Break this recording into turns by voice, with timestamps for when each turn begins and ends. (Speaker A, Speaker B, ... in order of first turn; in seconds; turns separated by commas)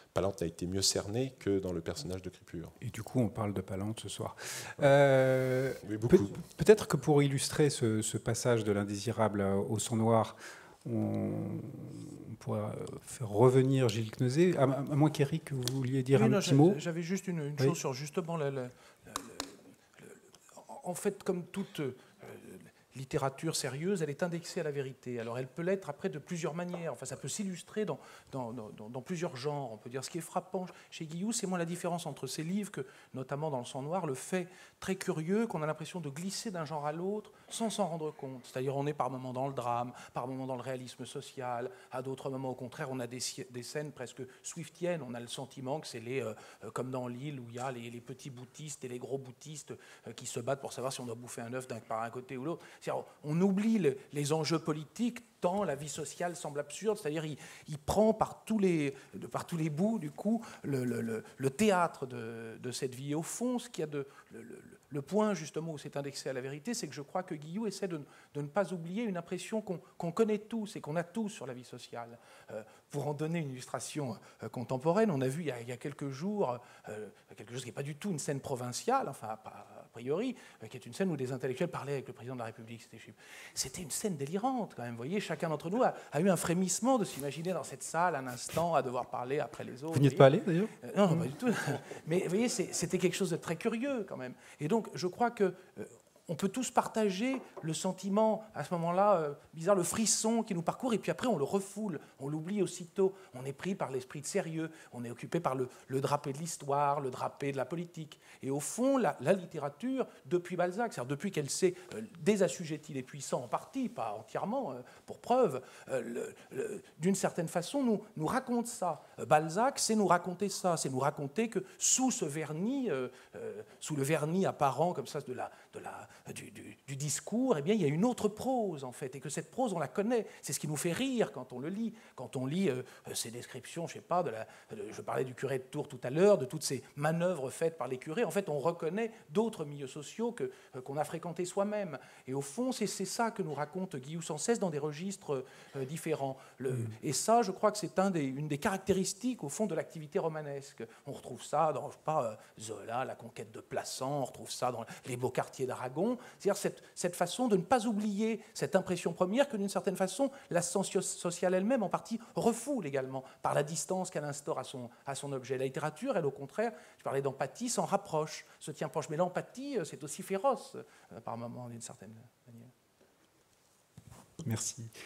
Speaker A: 0.1-2.7, Speaker B: 2.8-16.8, Speaker A: 5.8-6.4, Speaker C: 16.1-90.3, Speaker B: 89.9-91.2, Speaker C: 90.8-172.7, Speaker B: 174.4-174.9